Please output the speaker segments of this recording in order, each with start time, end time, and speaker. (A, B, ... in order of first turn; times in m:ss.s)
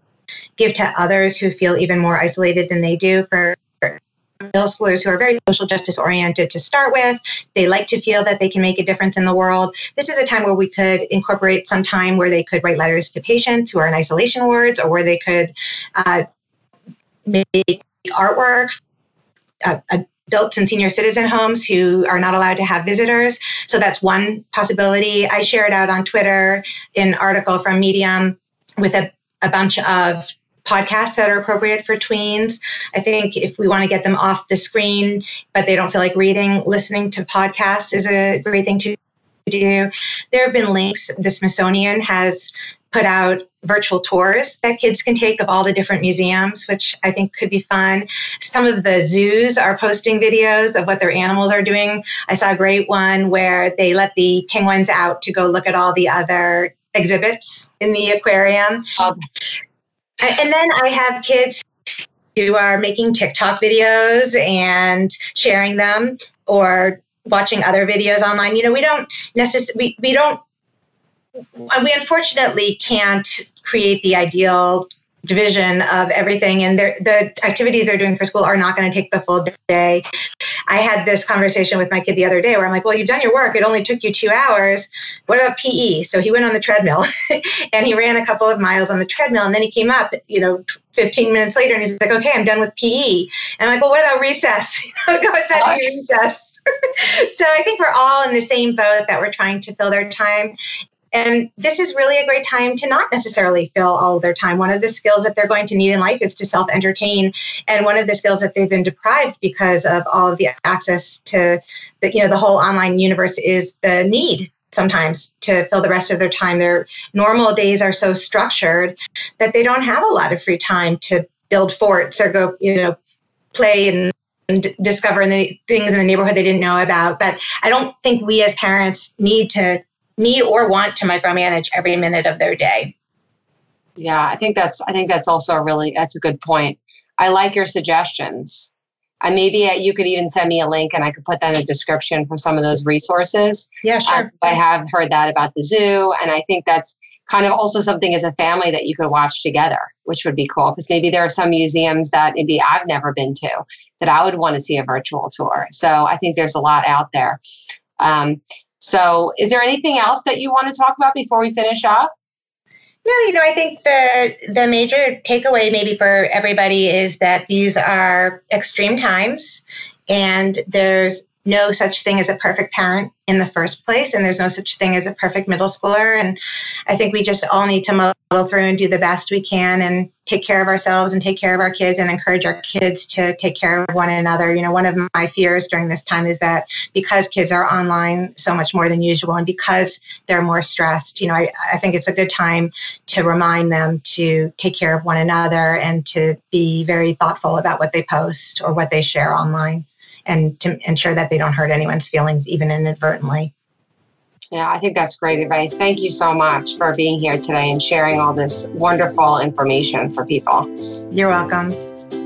0:00.6-0:16.2 A
0:17.2-0:18.8 A
0:19.6-0:58.9 A
1:00.2-1:10.4 A
1:11.5-1:20.0 A
1:20.7-1:40.6 A
1:35.5-1:35.9 B
1:41.1-2:03.0 A
2:03.5-2:12.9 A
2:14.0-2:18.7 B
2:19.2-2:37.4 B
2:23.8-2:24.5 A
2:38.0-2:42.1 B
2:43.0-3:23.5 A
3:24.5-3:30.7 B
3:31.1-3:31.8 A